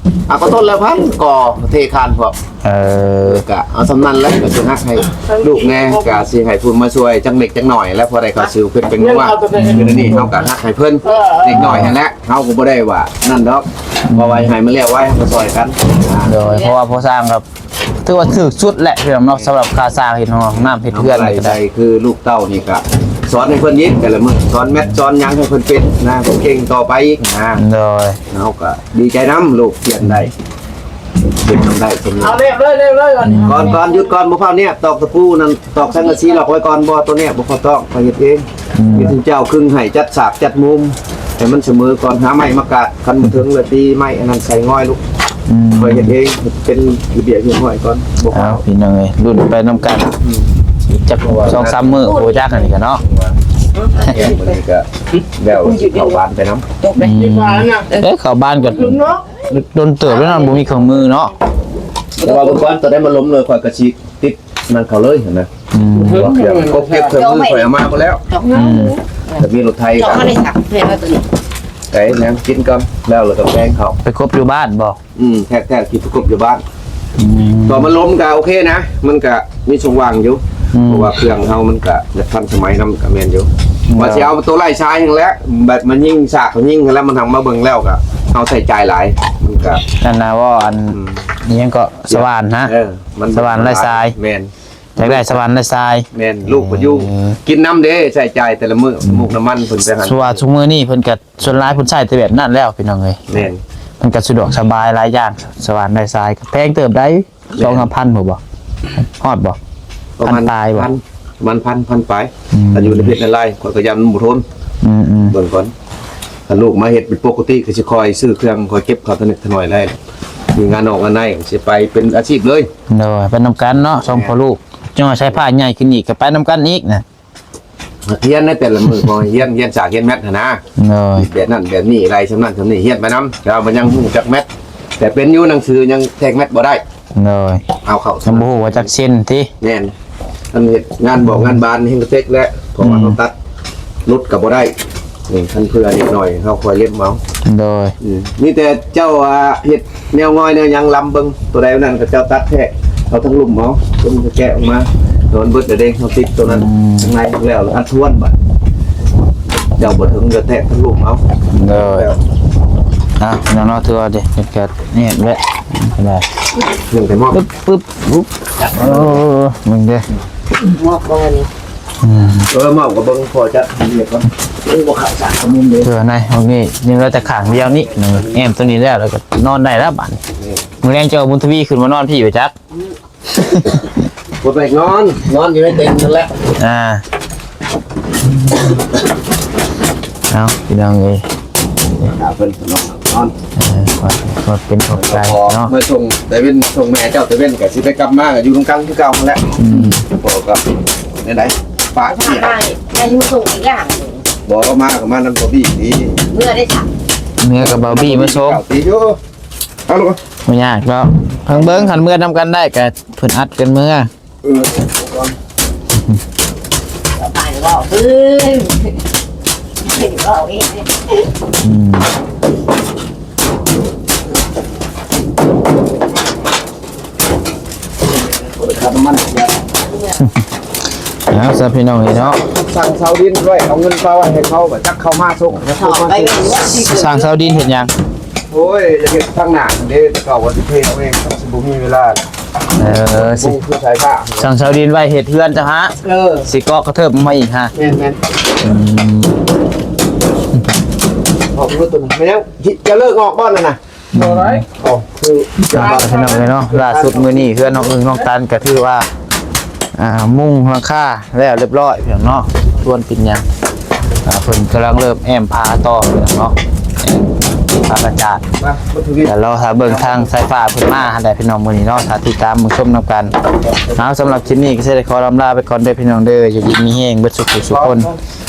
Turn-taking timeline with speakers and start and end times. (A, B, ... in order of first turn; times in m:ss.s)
0:00.3-0:02.4 A
0:02.6-0:03.4 B
0:03.2-0:16.4 A
0:05.2-0:06.2 C
0:09.0-0:10.1 C
0:09.5-0:10.4 B
0:11.0-0:11.7 C
0:11.5-0:11.9 B
0:14.1-0:14.5 B
0:16.2-0:17.4 B
0:16.4-0:16.7 D
0:18.0-0:21.6 B
0:20.9-0:27.6 A
0:27.6-0:28.2 B
0:28.3-0:30.3 A
0:31.4-0:32.4 A
0:32.2-0:33.9 C
0:33.2-0:33.7 B
0:33.5-0:45.0 A
0:38.8-0:39.2 B
0:45.5-0:46.2 B
0:45.8-0:48.6 A
0:48.3-0:50.2 B
0:50.2-0:50.5 A
0:50.9-0:53.0 B
0:51.2-0:52.2 A
0:52.0-0:52.6 D
0:53.0-0:53.4 A
0:53.9-0:54.4 D
0:54.0-0:56.7 A
0:55.5-0:56.1 D
0:57.0-0:57.9 C
0:57.0-1:01.3 B
0:58.6-0:59.4 C
1:00.2-1:00.6 D
1:02.2-1:05.5 A
1:02.2-1:02.6 D
1:05.7-1:06.4 B
1:06.0-1:08.2 A
1:06.0-1:06.8 C
1:06.8-1:09.0 D
1:08.5-1:08.8 C
1:08.5-1:08.9 B
1:09.3-1:10.4 A
1:10.0-1:11.2 D
1:11.9-1:14.0 A
1:14.0-1:15.0 B
1:15.1-1:16.6 A
1:17.2-1:17.9 B
1:17.6-1:29.8 A
1:20.7-1:21.1 B
1:23.9-1:24.3 B
1:30.0-1:32.7 B
1:30.9-1:31.2 A
1:32.1-1:35.3 A
1:33.3-1:34.1 B
1:35.0-1:37.4 B
1:36.1-1:40.4 A
1:40.0-1:43.4 B
1:43.3-1:43.6 A
1:44.0-1:48.4 B
1:47.5-1:47.9 A
1:49.0-1:49.6 B
1:50.2-1:54.4 A
1:50.2-1:50.9 B
1:52.5-1:53.2 B
1:54.8-1:55.3 B
1:55.3-1:55.7 A
1:56.5-2:00.0 A
2:00.5-2:02.7 A
2:02.9-2:07.0 B
2:04.0-2:04.3 A
2:08.0-2:10.6 A
2:10.8-2:11.3 B
2:11.2-2:14.5 A
2:15.0-2:16.8 A
2:17.1-2:17.7 B
2:17.8-2:18.9 A
2:18.2-2:19.5 B
2:19.6-2:19.9 A
2:20.5-2:23.3 A
2:22.8-2:23.2 B
2:24.0-2:24.7 A
2:25.3-2:27.2 A
2:27.4-2:27.9 B
2:28.0-2:38.4 A
2:36.5-2:37.1 B
2:39.8-2:42.2 A
2:41.5-2:42.1 B
2:43.2-2:46.2 B
2:46.9-2:47.4 A
2:47.3-2:50.0 B
2:48.6-2:49.2 A
2:50.6-2:51.5 D
2:52.0-2:52.5 B
2:52.5-2:55.9 A
2:55.8-3:00.2 B
3:00.4-3:00.6 A
3:00.8-3:02.5 B
3:03.4-3:03.8 B
3:04.4-3:06.3 A
3:06.6-3:07.0 B
3:10.3-3:11.2 B
3:12.0-3:13.3 A
3:13.6-3:15.7 B
3:14.9-3:19.5 A
3:19.6-3:20.0 B
3:20.0-3:20.6 A
3:21.2-3:22.5 A
3:22.0-3:24.2 D
3:24.4-3:26.2 A
3:26.3-3:26.9 D
3:27.4-3:28.6 B
3:27.6-3:29.2 A
3:29.8-3:30.2 A
3:30.4-3:34.1 B
3:34.4-3:35.3 A
3:37.1-3:39.0 D
3:39.8-3:41.2 D
3:41.6-3:42.1 B
3:48.3-3:49.6 A
3:49.8-3:50.3 D
3:51.3-3:52.4 B
3:52.4-3:56.5 A
3:55.8-3:57.6 D
3:56.7-3:57.9 B
3:58.5-4:02.2 A
4:02.8-4:03.6 B
4:03.2-4:04.5 A
4:04.4-4:07.7 B
4:06.0-4:06.4 A
4:07.7-4:08.2 A
4:08.6-4:09.4 B
4:11.5-4:13.8 A
4:14.1-4:14.6 B
4:14.2-4:14.6 C
4:14.7-4:17.6 A
4:15.7-4:19.1 B
4:15.8-4:16.4 C
4:20.0-4:23.4 B
4:24.2-4:28.4 B
4:28.6-4:30.3 A
4:29.2-4:33.3 B
4:33.7-4:34.1 A
4:34.0-4:38.1 B
4:37.6-4:38.2 A